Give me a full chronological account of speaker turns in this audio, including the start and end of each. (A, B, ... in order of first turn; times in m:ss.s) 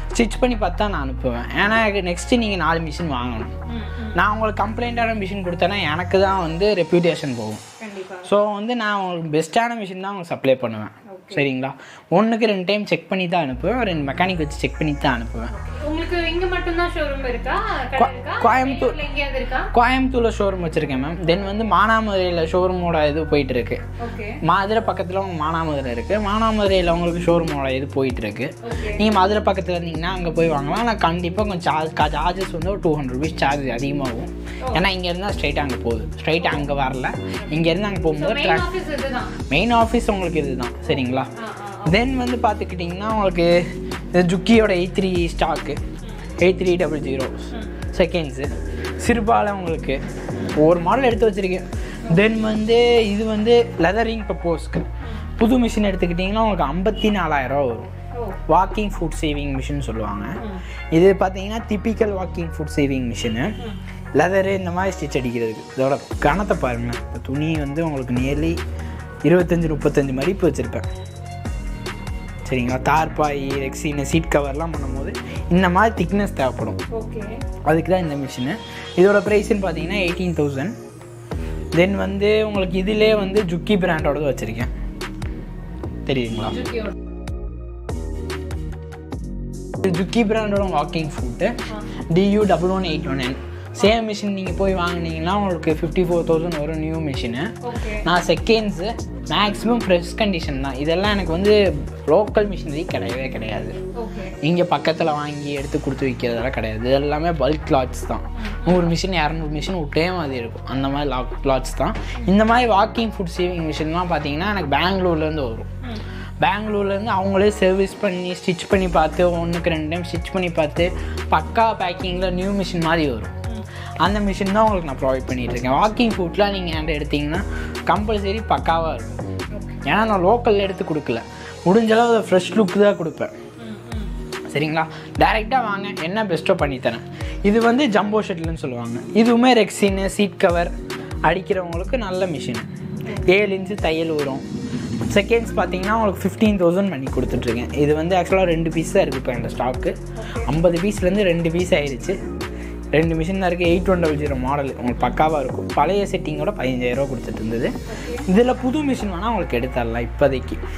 0:00.1-0:03.5 A
0:03.7-0:04.2 B
0:04.1-0:07.6 A
0:07.8-0:08.3 B
0:08.2-0:15.5 A
0:11.1-0:11.5 B
0:15.5-0:19.7 B
0:18.0-0:19.0 A
0:19.7-0:23.8 A
0:24.0-0:24.4 B
0:24.4-0:38.6 A
0:28.6-0:29.0 B
0:36.4-0:36.6 B
0:38.1-0:39.4 B
0:39.5-0:41.3 A
0:40.9-0:42.0 B
0:41.8-0:45.8 A
0:46.4-0:48.5 A
0:49.0-0:50.0 A
0:50.5-0:57.9 A
0:58.1-0:58.4 B
0:58.5-1:00.4 A
1:00.9-1:03.5 A
1:04.2-1:08.6 A
1:09.2-1:10.9 A
1:12.4-1:16.8 A
1:16.9-1:17.4 B
1:17.6-1:20.7 A
1:21.7-1:24.7 A
1:26.0-1:26.6 A
1:26.5-1:26.9 B
1:29.8-1:31.6 A
1:32.1-1:37.5 A
1:37.6-1:38.0 B
1:38.0-1:41.6 A
1:42.1-1:43.7 A
1:43.9-1:44.4 B
1:44.4-1:55.7 A
1:48.4-1:48.9 B
1:56.4-2:03.3 A
2:04.0-2:09.2 A
2:09.5-2:09.9 B
2:09.8-2:13.3 A
2:13.6-2:14.1 B
2:14.5-2:20.7 A
2:21.2-2:24.4 A
2:25.1-2:32.2 A
2:30.2-2:30.5 B
2:32.9-2:40.6 A
2:37.9-2:38.3 B